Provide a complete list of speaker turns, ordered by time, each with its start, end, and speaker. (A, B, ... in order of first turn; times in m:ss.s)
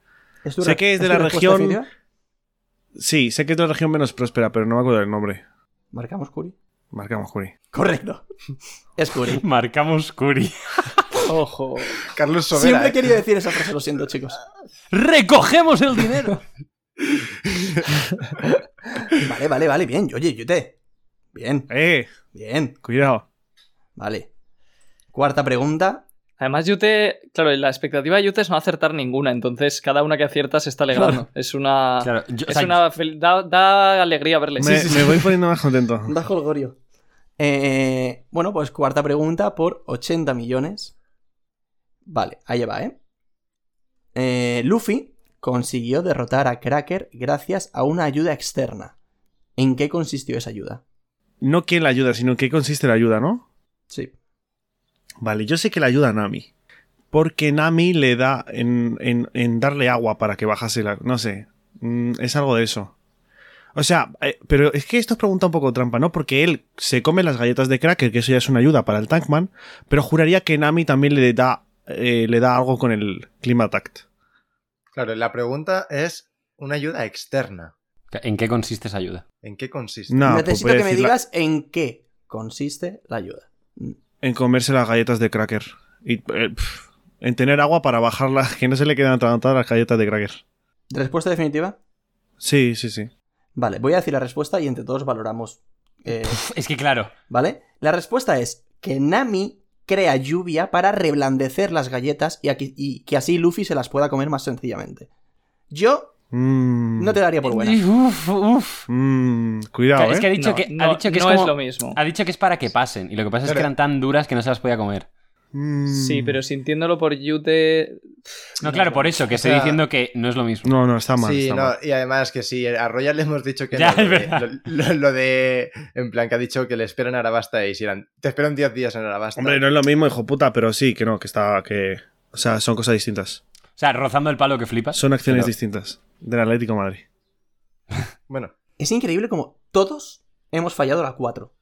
0:00.4-0:01.9 A
0:00.6-0:01.8 B
0:03.0-0:05.4 B
0:05.9-0:06.6 A
0:06.9-0:07.5 B
0:07.7-0:08.2 A
0:09.0-0:09.4 A
0:09.3-0:11.2 C
0:11.2-0:12.0 D
0:12.0-0:13.1 E
0:12.5-0:14.4 A
0:14.9-0:16.4 C
0:17.1-0:17.9 E
0:19.1-0:20.8 A
0:21.3-0:21.7 A
0:21.7-0:22.1 B
0:22.3-0:22.8 A
0:22.8-0:23.2 B
0:24.0-0:24.3 A
0:25.1-0:26.1 A
0:26.4-0:34.9 D
0:30.9-0:31.2 A
0:32.0-0:32.8 C
0:34.6-0:35.3 A
0:34.6-0:36.1 B
0:36.0-0:36.8 A
0:37.4-0:40.9 A
0:42.1-0:43.0 A
0:44.2-0:49.0 A
0:49.6-0:50.8 A
0:51.4-0:53.4 B
0:55.2-0:56.5 B
0:57.1-1:02.9 B
1:03.8-1:14.0 B
1:14.9-1:17.7 E
1:18.1-1:19.2 C
1:19.4-1:20.2 E
1:20.1-1:21.1 B
1:20.2-1:24.0 A
1:24.2-1:30.4 B
1:30.9-1:31.8 A
1:32.4-1:33.1 B
1:33.6-1:36.4 A
1:36.3-1:37.1 C
1:37.3-1:45.1 A
1:45.7-1:46.2 A
1:46.3-1:47.2 B
1:47.0-1:47.8 A
1:47.4-1:48.9 C
1:48.9-1:50.3 B
1:50.0-1:55.1 C
1:50.4-1:52.0 D
1:53.4-1:53.7 E
1:55.5-1:56.4 B
1:55.9-1:58.1 D
1:58.6-2:00.7 C
1:58.6-1:59.1 D
1:59.3-1:59.8 E
2:00.6-2:01.7 B
2:01.2-2:09.6 E
2:03.7-2:04.5 C
2:09.4-2:13.4 B
2:13.8-2:15.5 C
2:14.9-2:17.0 B
2:18.8-2:21.5 A